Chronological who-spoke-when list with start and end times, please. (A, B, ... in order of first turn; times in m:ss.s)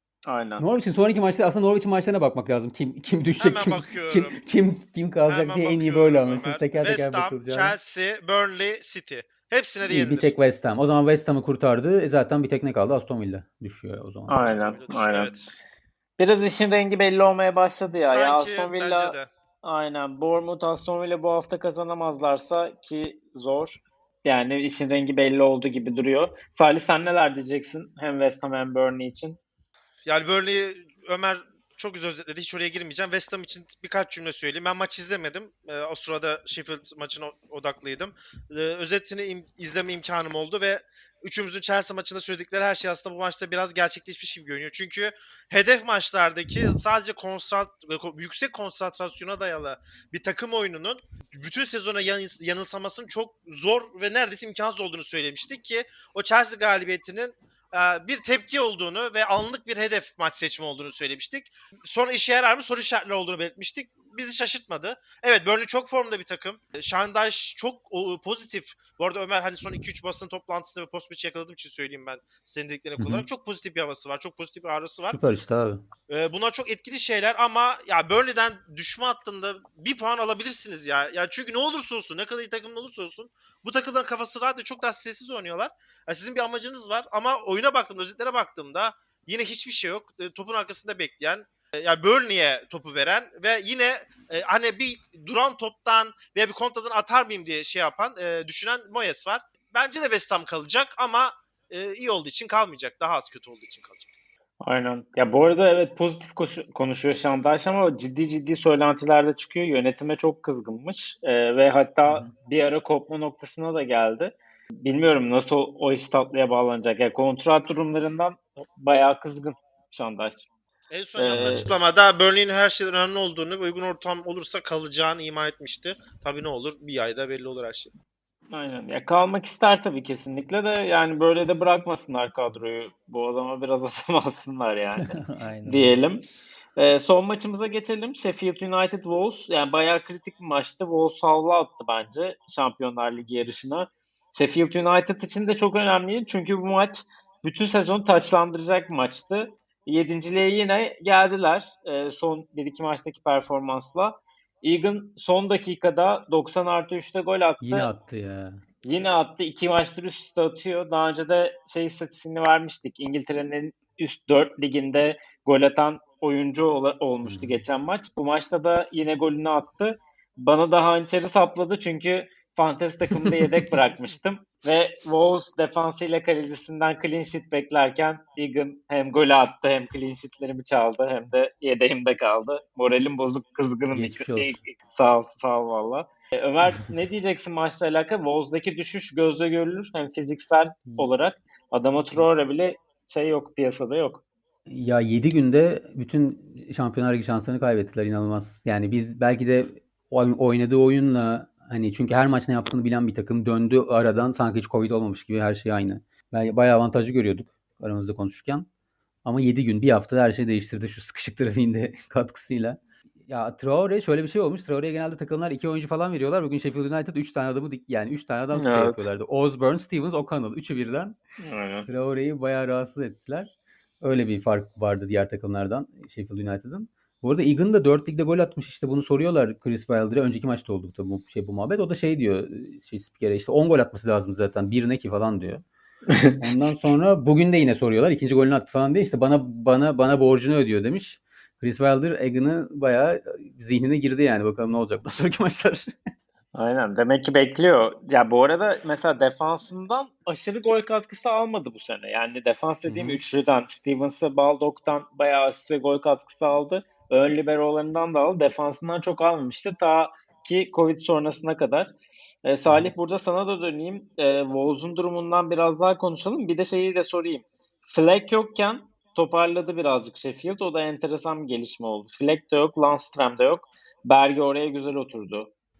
0:00.2-0:00.6 A
0:00.6-0:07.7 B
0:03.4-0:04.4 C
0:05.3-0:10.3 C
0:09.9-0:14.5 B
0:14.3-0:15.3 A
0:14.4-0:15.5 C
0:16.2-0:29.4 A
0:18.0-0:19.3 C
0:30.0-1:15.2 C
1:13.0-1:13.2 B
1:15.0-1:15.8 B
1:16.1-1:44.1 C
1:44.6-2:00.4 A
2:00.9-2:07.9 C
2:01.2-2:01.7 A
2:01.2-2:01.7 B
2:08.5-2:16.2 A
2:15.1-2:16.0 B
2:16.8-2:37.9 A
2:37.6-2:38.6 B
2:38.8-3:14.2 A
2:47.2-2:47.6 B
2:53.1-2:53.6 B
3:03.9-3:04.6 B
3:14.7-3:28.7 B
3:29.2-3:41.2 B
3:38.5-3:39.1 A
3:41.4-3:41.9 A
3:41.8-3:55.6 B
3:56.4-4:05.9 B
4:06.5-4:35.5 A
4:12.9-4:13.2 B
4:22.6-4:22.9 B